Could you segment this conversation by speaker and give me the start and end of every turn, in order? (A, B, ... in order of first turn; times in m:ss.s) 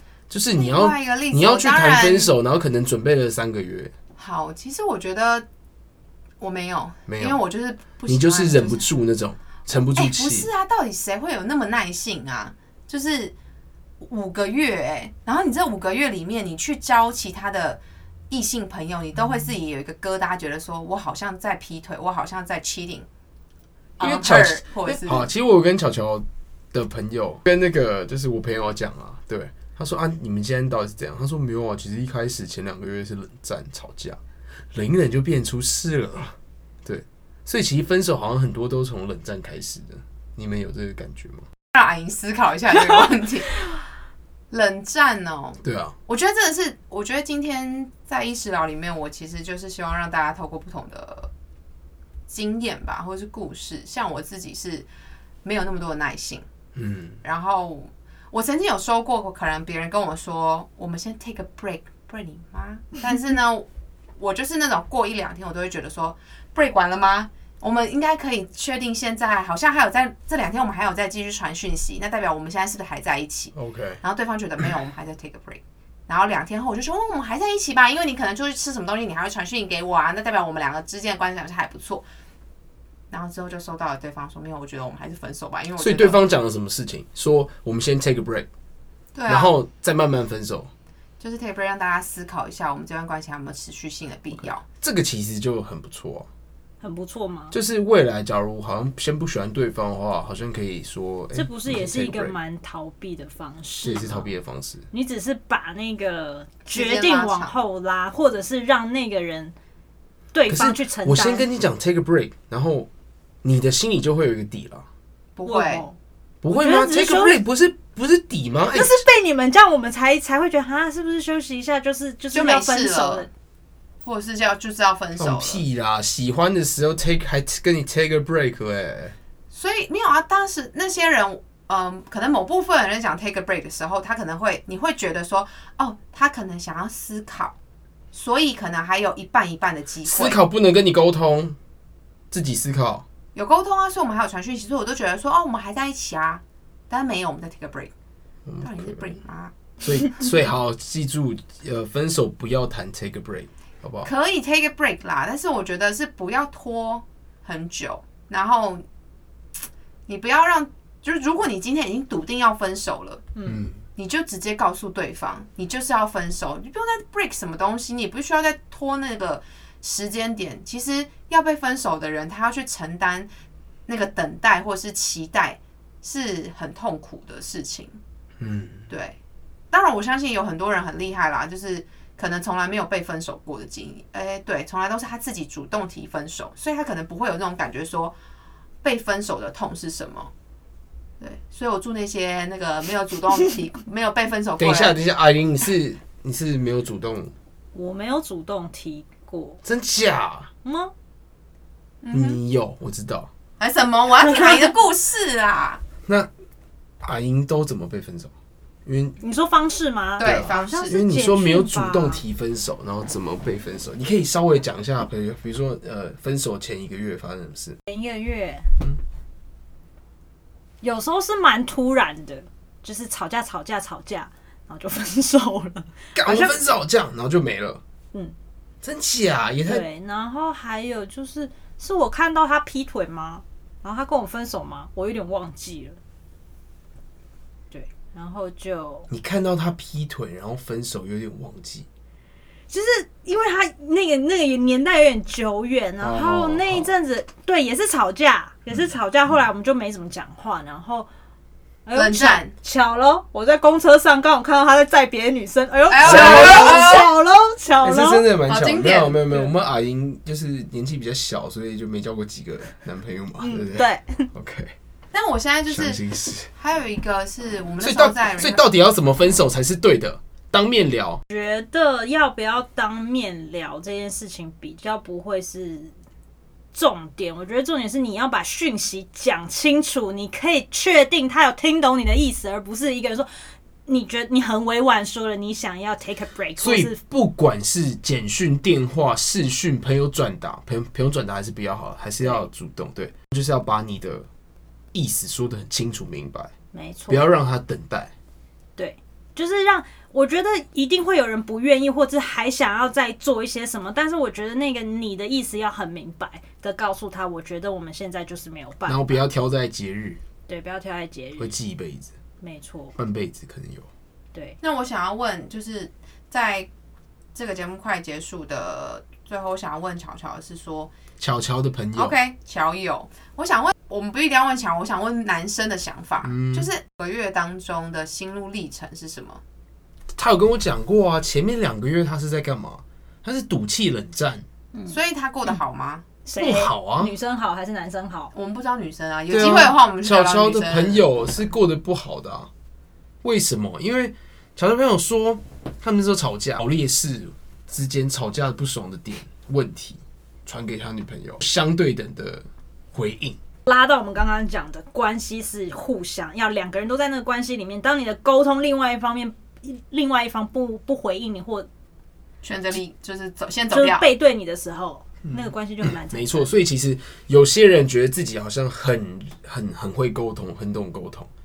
0:00.3-0:03.9 A
0:00.5-0:02.3 B
0:04.2-0:05.5 B
0:06.4-0:08.9 B
0:07.1-0:07.4 A
0:08.1-0:10.5 A
0:10.0-0:13.3 B
0:14.0-0:23.1 B
0:24.0-0:25.3 B
0:24.0-0:34.2 A
0:34.7-0:41.4 A
0:41.7-0:43.6 B
0:44.5-0:51.3 B
0:45.6-0:46.0 A
0:52.3-0:54.9 B
0:55.4-0:56.4 B
0:56.8-0:57.2 A
0:57.2-1:22.0 B
1:13.6-1:14.0 A
1:23.1-1:26.2 B
1:25.8-1:28.5 A
1:29.1-1:29.6 B
1:29.3-1:30.7 A
1:31.2-1:34.6 B
1:34.4-1:36.3 A
1:36.8-1:37.6 C
1:37.5-1:42.4 A
1:41.3-1:44.3 C
1:43.8-1:44.9 A
1:44.9-1:49.5 C
1:46.7-1:47.6 B
1:50.3-1:51.5 C
1:50.5-1:52.9 A
1:53.4-1:54.9 A
1:55.4-1:55.9 B
1:55.5-1:56.0 C
1:56.4-1:59.0 A
1:56.5-1:57.4 C
1:58.7-2:03.3 C
2:02.3-2:03.3 B
2:04.0-2:05.6 B
2:05.2-2:09.2 A
2:09.5-2:17.6 B
2:18.1-2:20.4 B
2:20.0-2:21.6 A
2:22.3-2:23.0 A
2:23.4-2:27.9 B
2:28.5-2:29.2 A
2:28.6-2:29.5 B
2:29.8-2:34.1 A
2:34.0-2:38.8 B
2:40.1-2:43.3 B
2:43.4-2:43.8 A
2:44.0-2:53.3 B
2:53.9-2:58.0 B
2:58.4-2:58.9 A
2:58.9-2:59.2 B
2:59.7-3:08.2 B
3:08.8-3:10.3 B
3:11.2-3:15.0 B
3:14.6-3:17.3 A
3:17.7-3:19.6 C
3:19.6-3:20.5 A
3:20.6-3:20.9 C
3:22.0-3:22.4 B
3:22.1-3:23.3 A
3:23.6-3:25.8 B
3:27.0-3:28.3 A
3:28.8-3:29.2 A
3:29.2-3:32.2 C
3:30.2-3:31.0 B
3:30.2-3:37.8 A
3:37.9-3:38.7 C
3:40.8-3:46.7 C
3:46.2-3:47.8 A
3:48.8-3:49.9 A
3:49.6-3:56.0 C
3:57.7-3:59.1 C
3:59.1-4:01.9 A
4:02.7-4:11.1 C
4:06.0-4:06.9 A
4:11.9-4:18.3 C
4:12.0-4:12.5 B
4:15.9-4:17.1 B
4:16.0-4:17.1 A
4:17.8-4:24.7 A
4:18.5-4:19.2 B
4:23.4-4:24.3 C
4:25.1-4:28.6 B
4:25.7-4:26.5 A
4:27.8-4:31.2 A
4:31.3-4:35.9 C
4:36.7-4:43.3 C
4:43.9-4:47.0 C
4:46.6-4:54.3 A
4:54.9-4:56.5 A
4:56.7-4:57.3 C
4:57.1-4:58.1 A
4:58.8-5:09.2 C
5:08.9-5:10.2 A
5:10.5-5:11.6 C
5:11.4-5:12.1 A
5:12.4-5:13.0 C
5:13.0-5:13.9 A
5:14.6-5:16.7 B
5:17.4-5:20.9 B
5:21.2-5:22.2 A
5:22.0-5:29.4 B
5:26.2-5:26.7 A
5:30.2-5:34.4 A
5:34.9-5:36.0 B
5:36.2-5:38.3 C
5:36.4-5:37.1 A
5:38.3-5:41.0 B
5:39.3-5:42.5 A
5:43.2-5:53.4 A
5:53.7-6:01.7 C
6:02.4-6:04.1 B
6:03.7-6:06.5 C
6:05.3-6:11.3 A